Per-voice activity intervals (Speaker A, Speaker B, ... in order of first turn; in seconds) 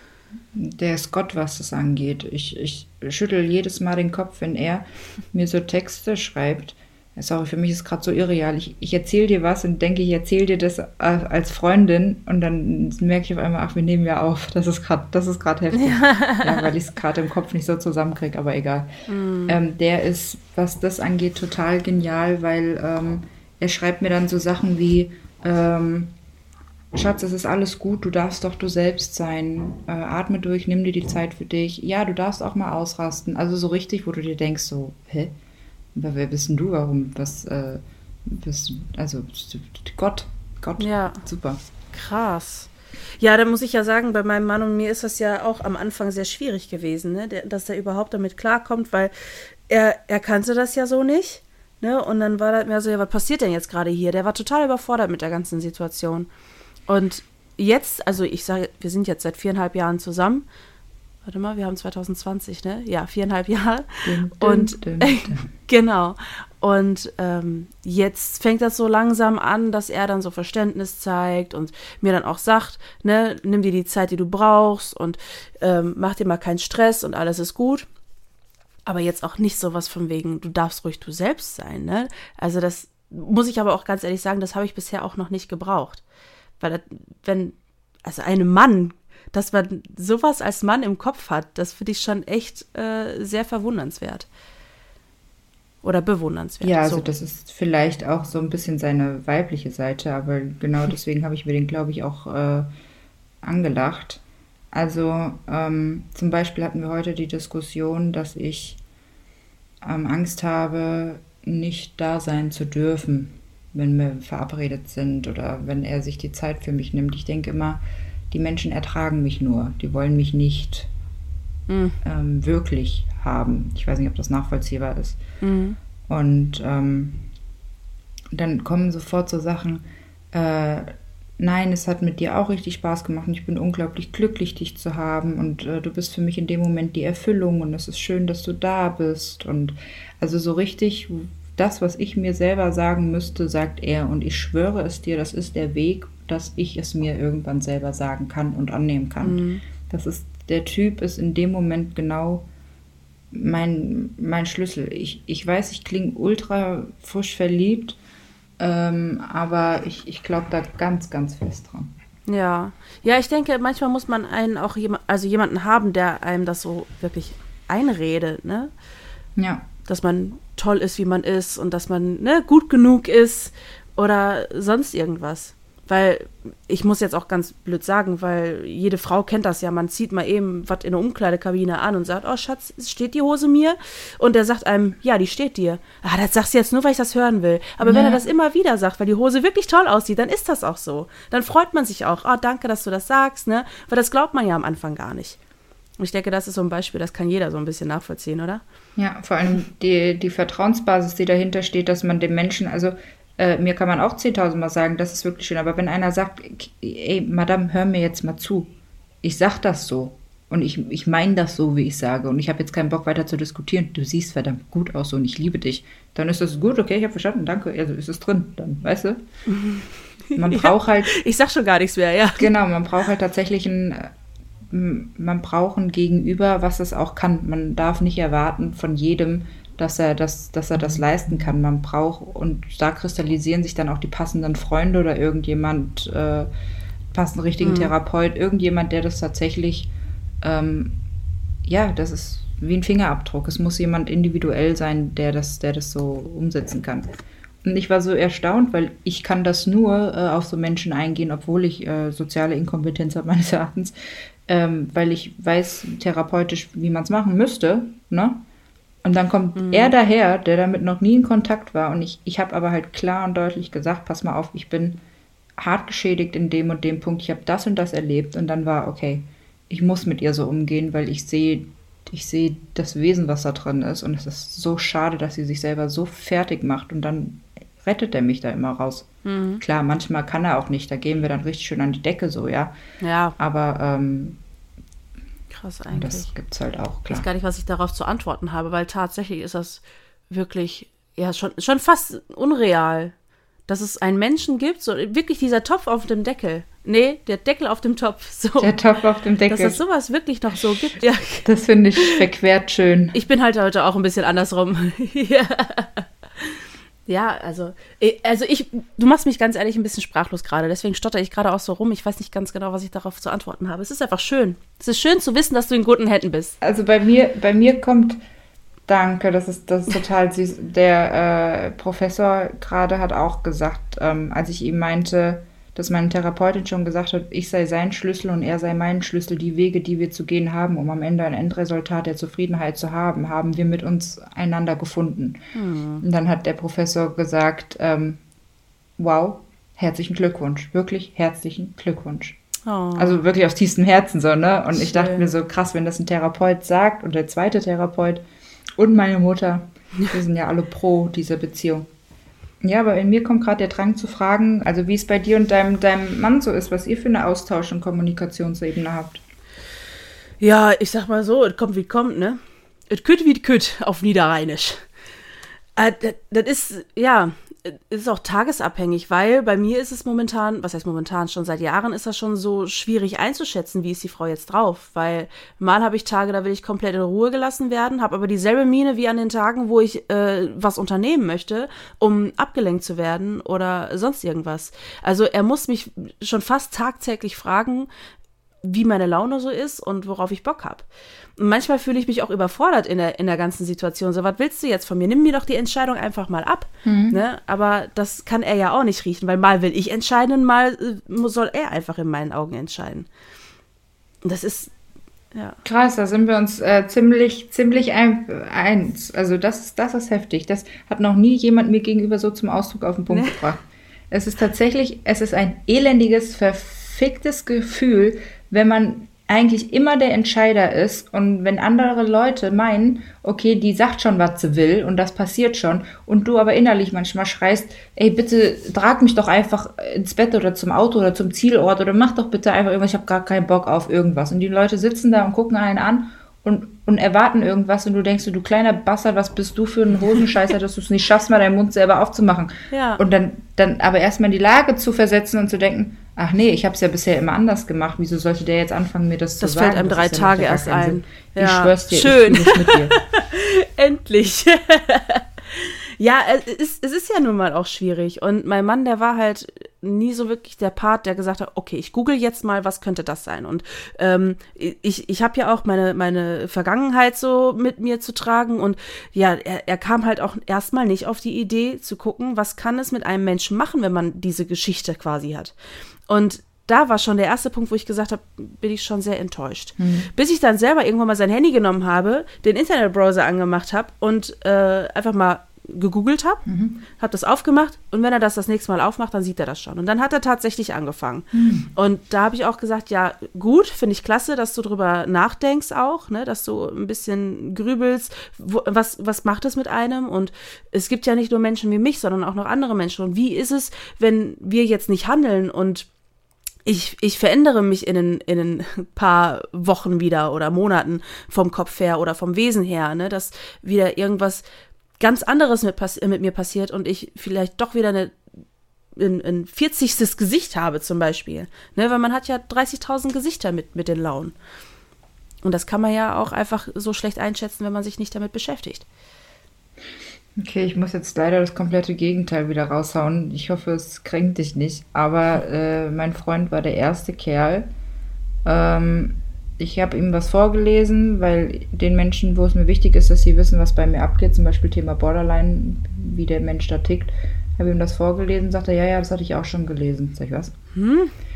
Speaker A: 0.5-18.9, 19.5-26.1, 26.9-35.4, 36.0-41.6, 64.1-65.4, 96.6-102.7, 103.4-108.8, 109.8-120.9, 122.0-125.2, 126.1-127.3, 128.3-152.5, 153.3-158.0, 158.6-161.9, 169.4-169.7, 187.8-188.2, 199.0-208.7, 209.2-219.2, 220.3-221.2, 222.4-224.1, 224.7-236.5, 237.1-239.9, 240.4-241.0, 241.7-247.1, 247.6-253.9, 254.5-258.4, 259.0-265.0, 265.6-279.1, 279.6-282.8, 283.4-284.4, 285.9-287.3, 298.6-299.8, 301.4-303.2, 316.6-318.2, 318.9-335.4, 336.0-338.2, 339.0-342.4, 343.0-348.2, 348.8-351.9, 352.6-359.2, 396.9-397.2, 405.6-453.0, 479.8-480.1, 486.5-486.8, 491.3-491.7, 530.4-537.7, 538.5-550.5
Speaker B: 15.7-16.7, 19.1-19.6, 40.8-41.2, 41.9-56.3, 56.9-60.5, 61.2-77.9, 78.9-86.0, 86.6-94.3, 95.8-97.1, 121.7-122.0, 125.4-125.8, 149.2-149.6, 162.3-168.7, 169.9-195.4, 196.0-198.6, 219.5-222.5, 237.6-237.9, 259.6-259.9, 279.2-279.6, 283.0-283.4, 285.5-286.3, 287.1-293.1, 293.7-298.7, 299.5-302.2, 303.1-306.5, 307.1-316.6, 335.5-336.0, 342.6-343.2, 344.7-345.3, 360.4-364.9, 365.8-387.9, 388.6-403.1, 404.2-404.7, 413.1-413.4, 442.7-443.0, 449.4-475.6, 476.1-486.4, 487.0-505.9, 506.6-514.4, 515.0-518.2, 519.0-524.4, 525.4-528.9, 550.7-551.1